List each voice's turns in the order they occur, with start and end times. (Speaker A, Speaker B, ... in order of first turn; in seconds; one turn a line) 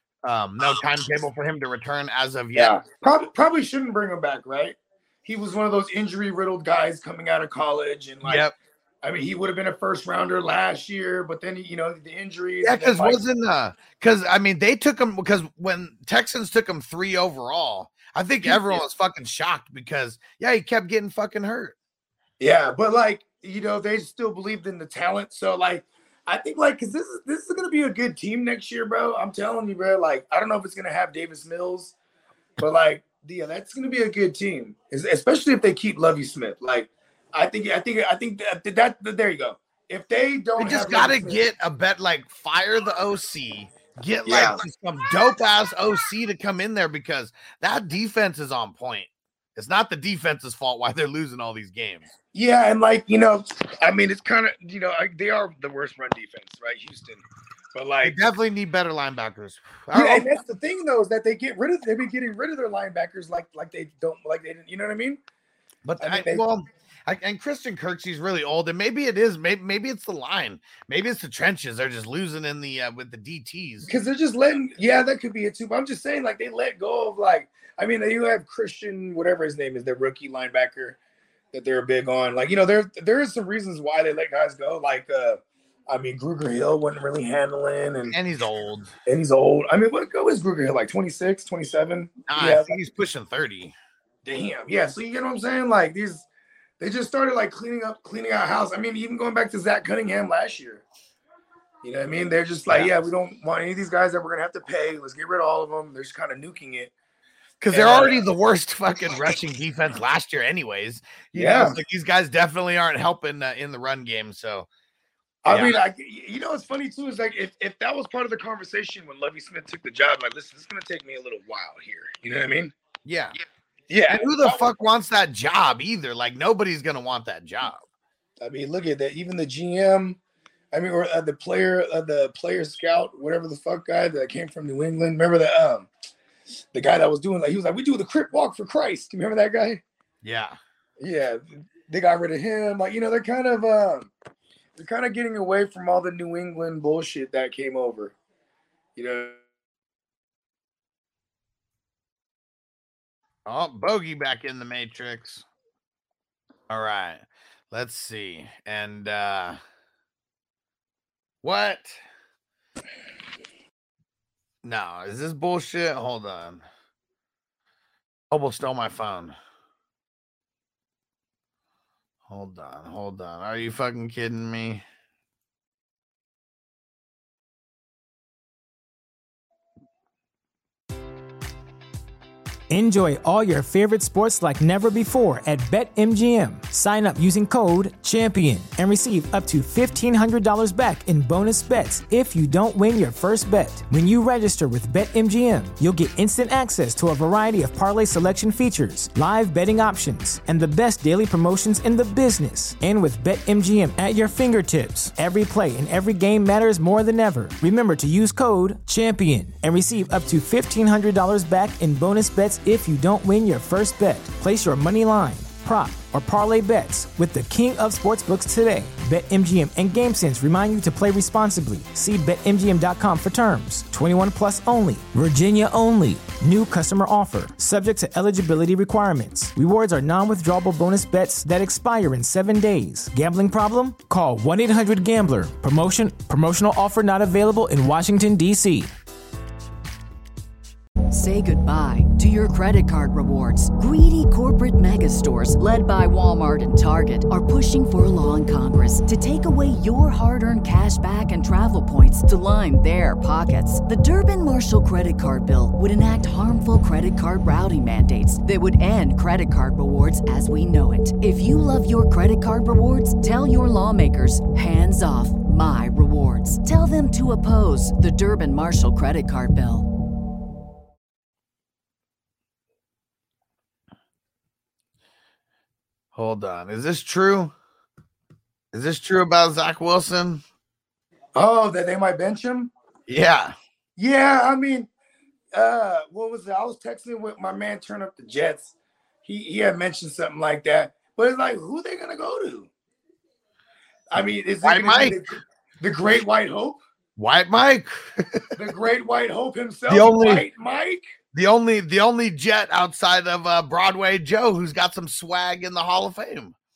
Speaker A: 0.2-2.8
Speaker B: 2.5-8.4
Speaker A: 8.2-8.5
Speaker B: 9.0-13.2
Speaker A: 12.6-21.8
Speaker B: 18.4-18.8
Speaker B: 22.4-31.9
Speaker B: 32.6-41.4
Speaker A: 40.6-52.1
Speaker B: 44.2-44.6
Speaker B: 52.3-58.2
Speaker A: 58.0-60.3
Speaker B: 59.9-65.2
Speaker A: 65.8-73.9
Speaker B: 66.0-66.4
Speaker B: 73.9-81.0
Speaker B: 81.5-88.2
Speaker A: 88.1-88.9
Speaker B: 89.0-92.8
Speaker A: 92.3-93.7
Speaker B: 94.2-96.2
Speaker B: 96.8-100.8
Speaker B: 101.8-106.9
Speaker A: 107.6-114.7
Speaker B: 107.7-108.2
Speaker B: 111.3-111.8
Speaker B: 115.4-122.7
Speaker A: 115.5-115.8
Speaker A: 123.0-123.3
Speaker B: 123.9-124.6
Speaker A: 124.1-127.8
Speaker B: 128.4-130.2
Speaker B: 130.7-135.9
Speaker B: 136.7-139.8
Speaker A: 140.2-140.6
Speaker B: 141.0-144.1
Speaker B: 144.8-148.1
Speaker B: 148.9-149.4
Speaker A: 153.4-155.4
Speaker A: 156.7-159.6
Speaker A: 161.4-161.9
Speaker A: 164.6-166.6
Speaker A: 168.3-169.3
Speaker A: 172.3-174.8
Speaker C: 182.7-238.9
Speaker D: 241.1-269.9
Speaker A: 276.1-277.5
Speaker A: 278.7-280.4
Speaker B: 281.3-282.7
Speaker A: 283.1-283.5
Speaker B: 284.0-284.9
Speaker B: 285.5-292.7
Speaker B: 294.1-296.8
Speaker A: 294.6-295.1
Speaker A: 297.2-298.5
Speaker B: 298.6-301.0
Speaker A: 299.9-300.4
Speaker A: 301.3-306.5